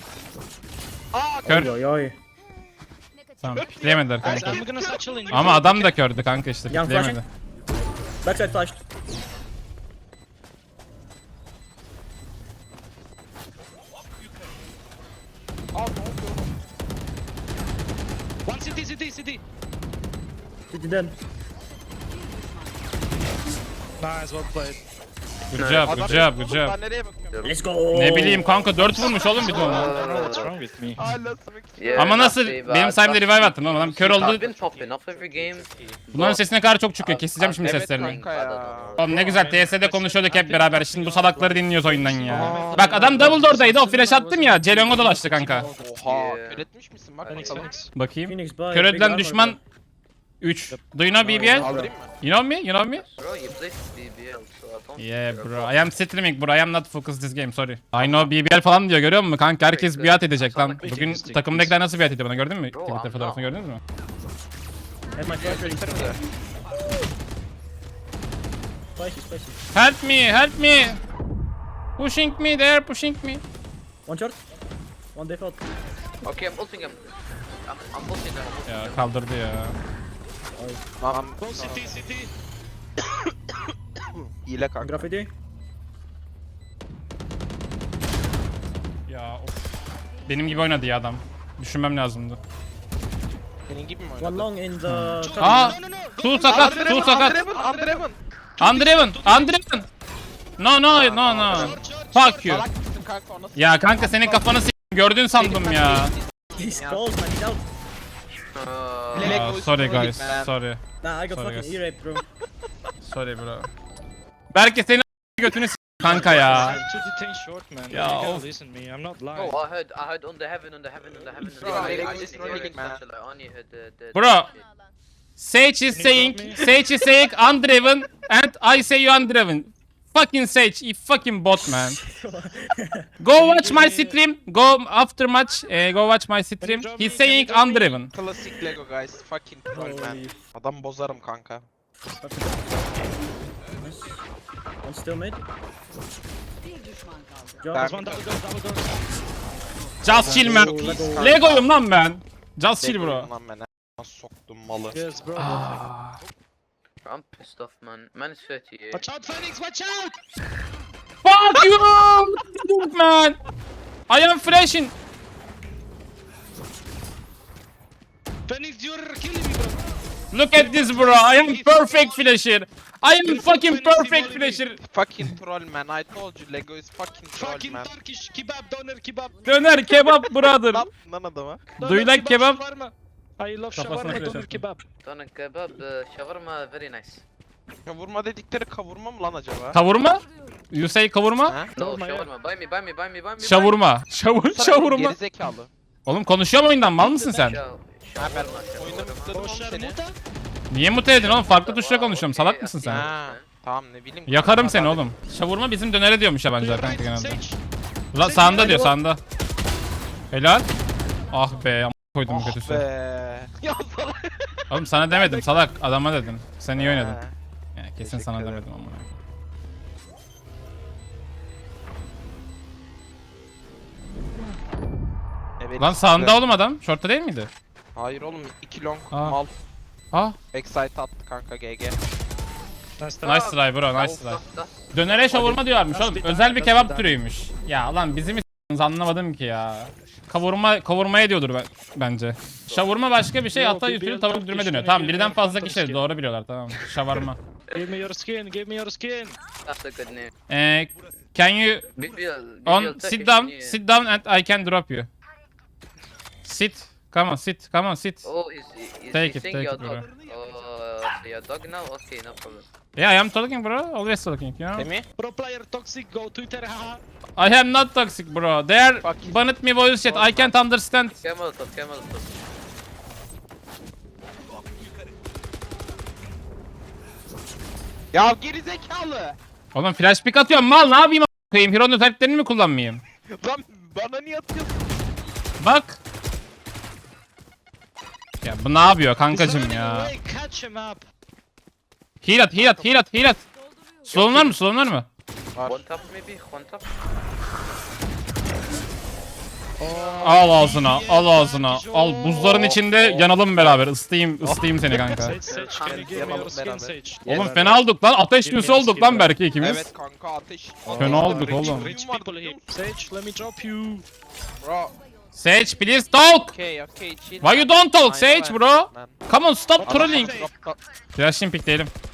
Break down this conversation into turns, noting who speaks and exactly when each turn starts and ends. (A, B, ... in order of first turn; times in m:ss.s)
0:01.1-0:01.7 A
0:01.4-0:02.2 B
0:01.4-0:01.7 C
0:03.4-0:04.6 C
0:03.6-0:05.6 A
0:04.2-0:05.9 D
0:05.3-0:07.2 C
0:06.7-0:07.2 B
0:08.2-0:08.8 B
0:15.7-0:16.5 A
0:18.4-0:19.4 D
0:20.7-0:21.1 B
0:24.0-0:24.8 D
0:25.5-0:26.8 C
0:25.6-0:25.9 E
0:25.8-0:27.6 A
0:27.3-0:27.6 E
0:27.4-0:28.6 B
0:27.9-0:30.0 C
0:29.4-0:31.0 D
0:29.4-0:32.4 A
0:29.5-0:30.4 E
0:31.8-0:36.4 E
0:32.0-0:34.4 C
0:33.6-0:36.0 A
0:36.1-0:38.2 C
0:37.0-0:39.6 E
0:37.6-0:39.5 A
0:39.0-0:45.7 C
0:40.2-0:41.4 D
0:41.2-0:43.7 B
0:42.2-0:45.8 D
0:42.3-0:43.5 A
0:45.8-0:47.8 A
0:46.0-0:46.6 E
0:47.2-0:47.7 E
0:47.2-0:47.9 D
0:47.9-0:49.6 C
0:48.2-0:49.6 B
0:50.4-0:51.7 C
0:51.2-0:52.1 A
0:51.3-0:51.9 B
0:52.2-0:53.0 C
0:52.9-0:55.8 E
0:55.0-1:03.8 C
0:58.0-0:58.2 A
0:59.7-1:01.0 E
1:00.8-1:01.8 D
1:02.7-1:03.4 E
1:05.1-1:06.2 B
1:05.4-1:06.1 E
1:05.4-1:06.1 A
1:09.0-1:09.6 B
1:09.7-1:11.0 C
1:12.0-1:13.4 C
1:14.0-1:14.4 B
1:15.1-1:15.6 B
1:16.2-1:17.1 E
1:17.6-1:19.1 E
1:18.6-1:19.8 C
1:20.6-1:20.8 B
1:21.0-1:22.0 A
1:21.4-1:22.3 D
1:24.4-1:25.0 A
1:24.8-1:25.3 B
1:29.1-1:32.4 C
1:33.7-1:34.5 A
1:34.2-1:35.8 B
1:34.8-1:37.4 C
1:35.2-1:38.0 D
1:36.4-1:38.2 A
1:38.6-1:39.5 D
1:38.6-1:39.8 C
1:40.6-1:42.6 C
1:40.9-1:41.8 E
1:41.3-1:41.7 A
1:41.4-1:42.5 D
1:42.4-1:44.6 A
1:43.6-1:46.1 C
1:45.4-1:47.1 A
1:46.6-1:47.6 B
1:48.5-1:49.5 E
1:49.1-1:50.5 A
1:49.2-1:51.8 C
1:51.0-1:52.2 B
1:53.0-1:53.7 C
1:54.5-1:56.8 C
1:56.1-1:56.8 A
1:56.2-1:59.6 D
1:57.9-1:58.4 C
1:59.3-2:04.6 E
2:01.5-2:03.0 A
2:04.1-2:04.5 C
2:05.4-2:12.0 C
2:05.9-2:06.6 D
2:11.6-2:13.1 B
2:13.2-2:18.1 C
2:13.3-2:14.2 D
2:16.6-2:18.0 D
2:18.1-2:21.6 A
2:19.7-2:20.4 B
2:22.2-2:22.9 B
2:23.8-2:24.2 B
2:24.8-2:25.4 B
2:27.6-2:28.0 B
2:27.7-2:28.4 A
2:27.8-2:29.1 D
2:30.0-2:33.3 C
2:30.1-2:31.7 A
2:30.2-2:31.1 D
2:30.2-2:31.4 B
2:32.8-2:35.0 A
2:34.9-2:35.8 D
2:35.4-2:36.2 C
2:37.0-2:39.1 E
2:38.9-2:40.2 D
2:41.2-2:43.4 C
2:44.1-2:44.9 C
2:48.5-2:49.9 D
2:50.3-2:54.8 C
2:50.5-2:52.2 D
2:53.2-2:54.6 D
2:54.8-2:57.9 A
2:57.3-3:00.3 D
2:59.4-3:00.8 C
3:00.6-3:01.7 A
3:01.8-3:04.8 D
3:01.8-3:02.6 C
3:03.7-3:04.6 C
3:05.0-3:07.2 E
3:07.8-3:09.8 A
3:09.7-3:11.6 C
3:11.5-3:11.7 A
3:11.7-3:12.3 D
3:11.8-3:13.8 E
3:13.4-3:15.2 C
3:14.5-3:15.7 A
3:16.0-3:17.6 C
3:17.2-3:19.4 E
3:18.2-3:20.0 A
3:19.3-3:20.1 D
3:20.7-3:23.1 C
3:21.1-3:23.4 E
3:22.9-3:25.1 A
3:24.3-3:27.4 C
3:26.6-3:27.6 D
3:28.1-3:29.2 C
3:28.2-3:28.9 D
3:30.3-3:30.7 C
3:31.3-3:32.8 C
3:32.3-3:34.5 A
3:34.7-3:37.2 C
3:35.1-3:35.7 A
3:36.8-3:37.3 A
3:37.7-3:39.2 C
3:38.0-3:38.7 A
3:45.6-3:46.4 A
3:45.8-3:47.5 C
3:47.9-3:49.5 A
3:49.1-3:49.4 C
3:50.5-3:52.0 A
3:53.0-3:53.4 D
3:53.2-3:54.4 C
3:53.3-3:55.4 E
3:54.9-4:07.4 C
3:55.3-3:57.2 D
4:03.5-4:06.0 D
4:07.7-4:09.4 D
4:09.6-4:10.3 E
4:10.5-4:11.9 C
4:12.0-4:13.8 E
4:12.6-4:15.1 C
4:16.4-4:18.3 C
4:18.2-4:22.6 E
4:19.1-4:20.0 C
4:19.8-4:20.7 A
4:23.0-4:24.9 C
4:24.8-4:25.0 A
4:25.2-4:27.0 D
4:27.4-4:31.2 C
4:29.0-4:29.5 A
4:30.0-4:30.5 A
4:31.2-4:32.3 E
4:38.1-4:39.4 A
4:39.7-4:43.0 C
4:43.3-4:44.9 A
4:45.6-4:46.0 C
4:48.4-4:50.1 C
4:49.3-4:51.0 D
4:52.2-4:53.4 C
4:54.1-4:54.6 A
4:54.1-4:55.1 C
4:55.6-4:55.8 A
4:55.6-4:56.8 E
4:59.8-5:02.7 D
5:00.2-5:05.4 C
5:02.5-5:03.2 A
5:04.4-5:07.0 A
5:05.2-5:09.4 D
5:05.5-5:06.3 E
5:07.2-5:09.8 C
5:09.6-5:13.0 A
5:10.8-5:14.0 D
5:11.0-5:11.9 C
5:14.6-5:15.0 A
5:15.3-5:16.5 C
5:16.5-5:19.2 A
5:17.4-5:20.4 C
5:19.8-5:20.5 D
5:19.8-5:20.8 A
5:21.2-5:21.9 C